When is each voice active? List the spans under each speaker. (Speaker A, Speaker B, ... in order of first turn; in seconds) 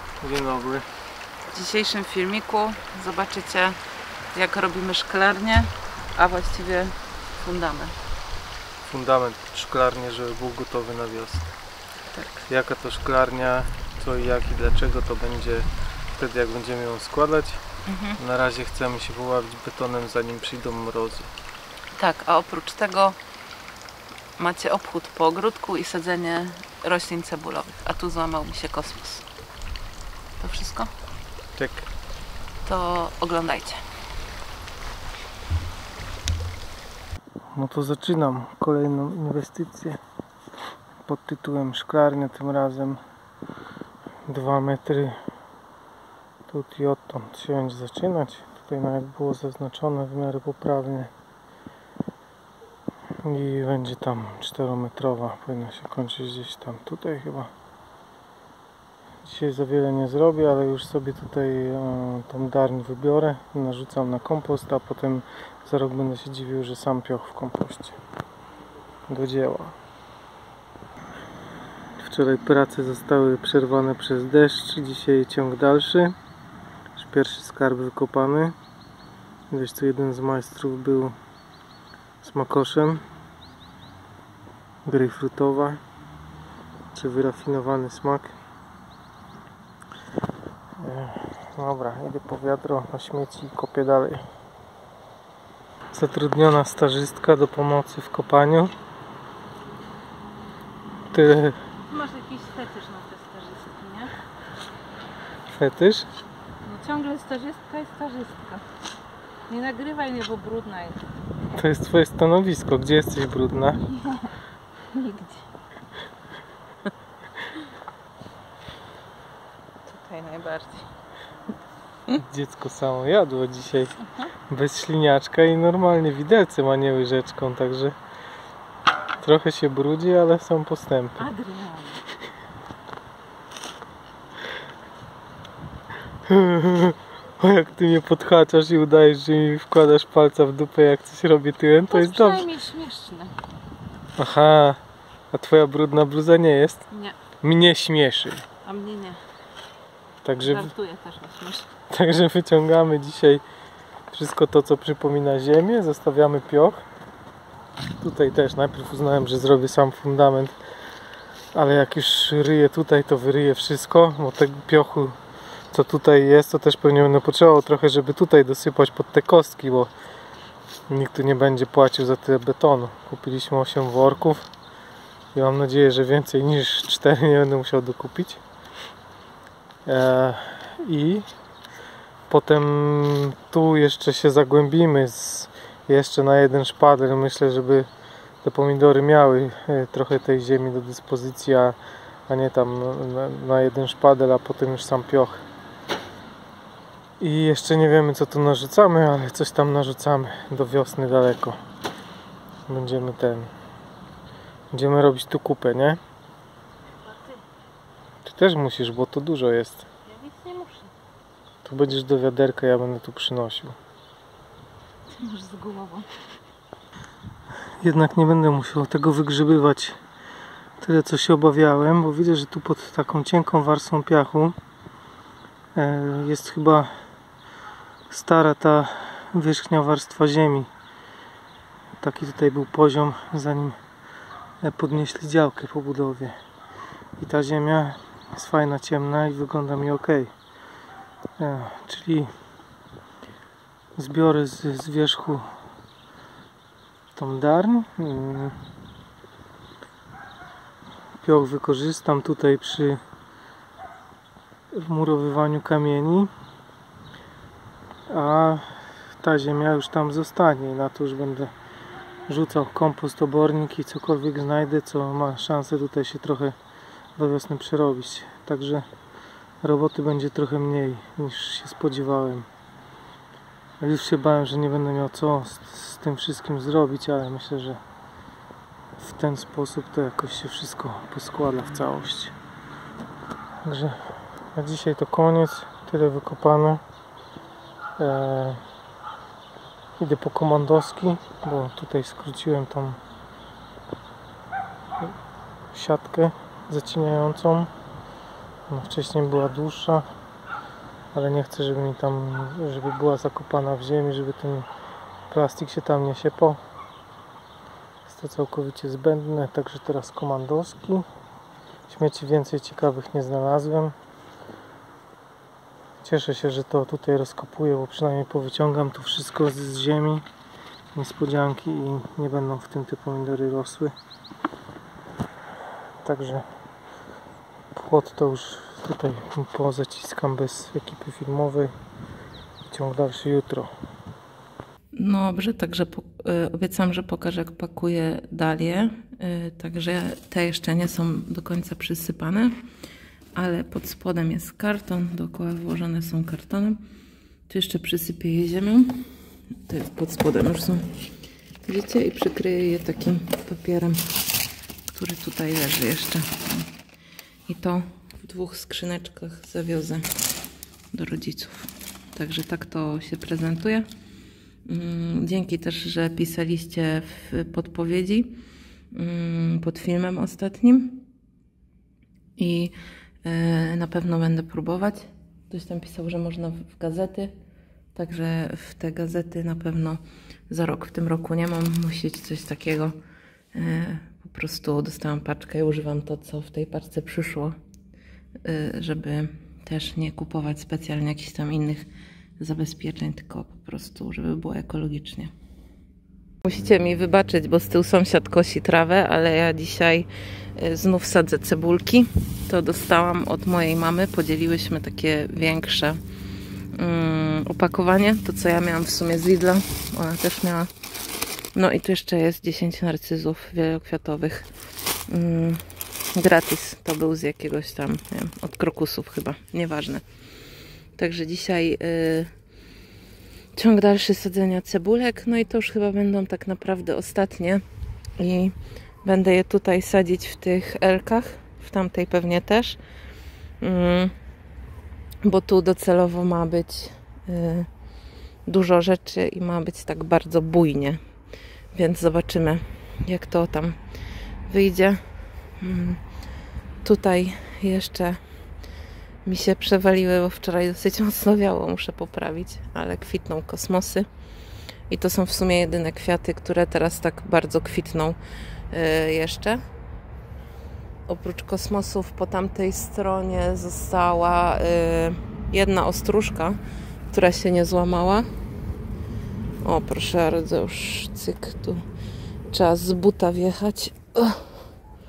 Speaker A: 0.2-0.9, 8.8-11.5, 12.5-17.6, 18.2-21.3, 31.6-31.9, 37.5-40.0, 41.0-43.0, 44.3-45.2, 46.5-51.1, 53.2-57.5, 59.2-68.0, 69.1-69.8, 72.0-76.2, 77.0-78.5, 79.5-81.2, 82.2-83.0, 84.8-85.8, 86.9-88.3, 90.8-94.2, 95.9-98.7, 101.1-101.6, 105.5-106.1, 111.5-113.8, 122.1-124.0, 124.5-128.0, 129.2-131.3, 136.3-142.5, 144.2-144.8, 145.3-146.8, 147.4-148.5, 150.2-150.7, 151.9-153.4, 154.1-156.9, 158.0-160.6, 161.5-165.2, 165.7-169.9, 170.9-174.5, 175.3-178.4, 179.9-181.3, 182.3-187.9, 188.4-191.8, 192.3-195.4, 197.2-201.6, 202.7-203.5, 204.7-206.0, 208.2-209.9, 211.6-213.8, 217.8-220.0, 220.8-224.6, 225.8-226.9, 228.1-230.7, 232.0-233.8, 234.6-236.4, 237.2-240.3, 241.4-242.3, 244.0-245.5, 247.2-248.6, 251.2-253.0, 254.7-256.3, 258.1-261.5, 262.3-266.6, 267.2-268.9, 269.6-272.5, 273.8-277.8, 279.0-282.3, 283.6-286.8, 288.0-288.6, 290.0-293.0, 295.7-297.7, 298.7-300.1, 301.1-304.7, 305.3-306.6, 308.1-311.1, 311.9-313.9, 316.0-320.2, 320.9-323.9, 326.0-326.5, 327.7-331.7, 332.7-333.7
Speaker B: 1.5-3.8, 4.3-7.9, 12.1-12.4, 17.9-18.2, 22.0-23.2, 24.4-29.2, 30.4-30.9, 32.6-33.8, 119.9-120.8, 334.9-342.6, 343.4-346.8, 347.5-349.0, 349.7-350.9, 351.6-354.0, 354.9-356.7, 357.5-360.1, 360.9-363.9, 364.7-368.4, 368.9-371.0, 372.4-372.7, 373.2-377.3, 377.9-380.0, 380.5-383.0, 383.5-387.6, 388.4-391.9, 392.4-395.3, 396.4-406.0, 406.7-410.7, 411.6-414.5, 415.1-420.0, 421.0-422.3, 423.6-427.6, 428.2-432.8, 433.6-434.1, 435.2-437.7, 438.5-441.0, 441.7-443.8, 444.5-445.0, 445.6-446.0, 446.8-448.2, 449.2-454.1, 454.9-458.2, 458.7-459.6, 461.1-466.6, 467.1-468.3, 469.6-471.8, 472.5-474.5
Speaker C: 101.9-104.1, 106.7-108.6, 109.5-111.0, 114.0-114.3, 114.9-115.4, 120.1-120.4, 131.2-132.0, 141.9-143.3, 146.9-147.2, 148.6-149.2, 150.4-151.7, 207.0-207.4, 210.1-210.9, 215.1-216.1